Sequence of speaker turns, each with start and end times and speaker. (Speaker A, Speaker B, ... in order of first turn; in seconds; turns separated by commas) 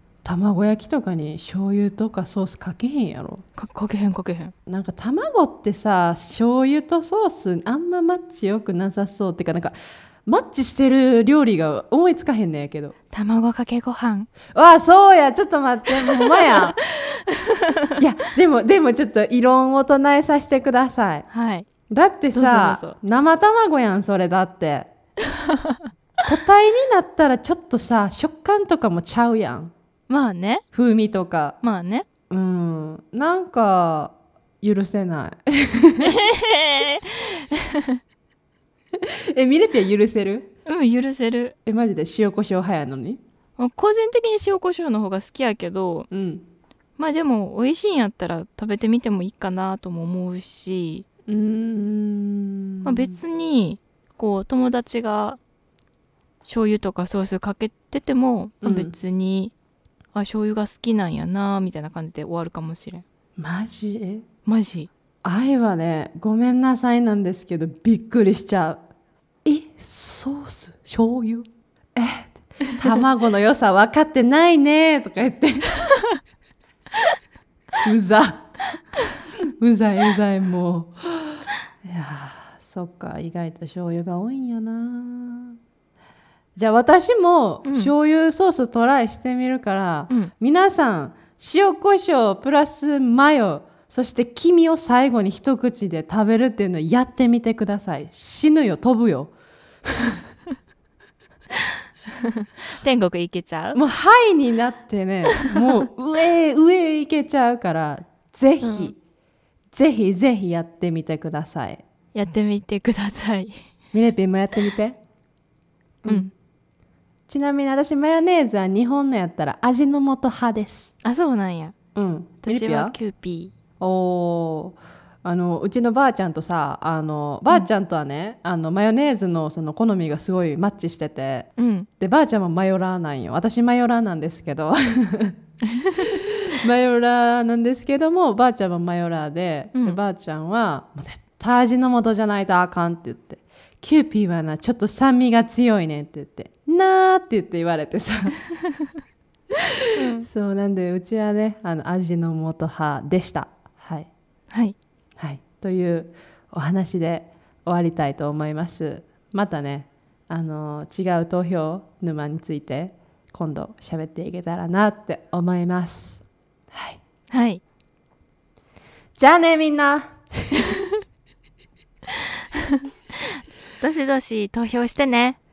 Speaker A: 0.2-3.4, Speaker B: 3.6-4.5, Speaker A: 4.7-9.7, Speaker A: 10.2-12.9, Speaker B: 13.1-14.3, Speaker A: 14.5-16.8, Speaker B: 16.0-18.0, Speaker A: 18.0-21.2, Speaker B: 21.3-21.6, Speaker A: 21.9-24.9, Speaker B: 22.3-22.9, Speaker B: 25.4-25.8, Speaker A: 26.2-29.7, Speaker B: 30.1-30.6, Speaker A: 30.7-31.6, Speaker B: 31.6-32.0, Speaker A: 32.3-36.1, Speaker B: 36.0-38.0, Speaker A: 39.0-40.5, Speaker B: 40.6-41.5, Speaker A: 41.6-43.2, Speaker B: 43.6-46.1, Speaker A: 46.1-46.4, Speaker B: 47.0-51.0, Speaker A: 51.3-53.2, Speaker B: 52.8-55.4, Speaker B: 56.5-59.5, Speaker A: 58.6-58.9, Speaker B: 60.1-63.0, Speaker A: 63.4-64.2, Speaker B: 64.5-64.9, Speaker A: 65.2-68.8, Speaker A: 69.4-75.9, Speaker A: 77.8-78.5, Speaker A: 79.6-85.6, Speaker A: 86.5-99.3, Speaker B: 87.6-87.9, Speaker A: 99.9-100.2, Speaker B: 102.2-103.8, Speaker A: 103.7-109.0, Speaker B: 108.6-108.9, Speaker A: 109.7-111.8, Speaker B: 112.1-113.5, Speaker A: 113.9-115.0, Speaker A: 116.0-116.3, Speaker A: 117.3-120.9, Speaker B: 121.0-121.7, Speaker A: 121.9-123.0, Speaker B: 122.4-123.5, Speaker A: 123.8-131.5, Speaker B: 131.6-131.9, Speaker A: 132.0-135.3, Speaker B: 135.7-136.1, Speaker A: 136.0-148.4, Speaker B: 149.9-150.3, Speaker A: 150.2-154.1, Speaker A: 155.2-167.0, Speaker B: 167.3-167.6, Speaker A: 169.2-170.7, Speaker B: 173.8-175.4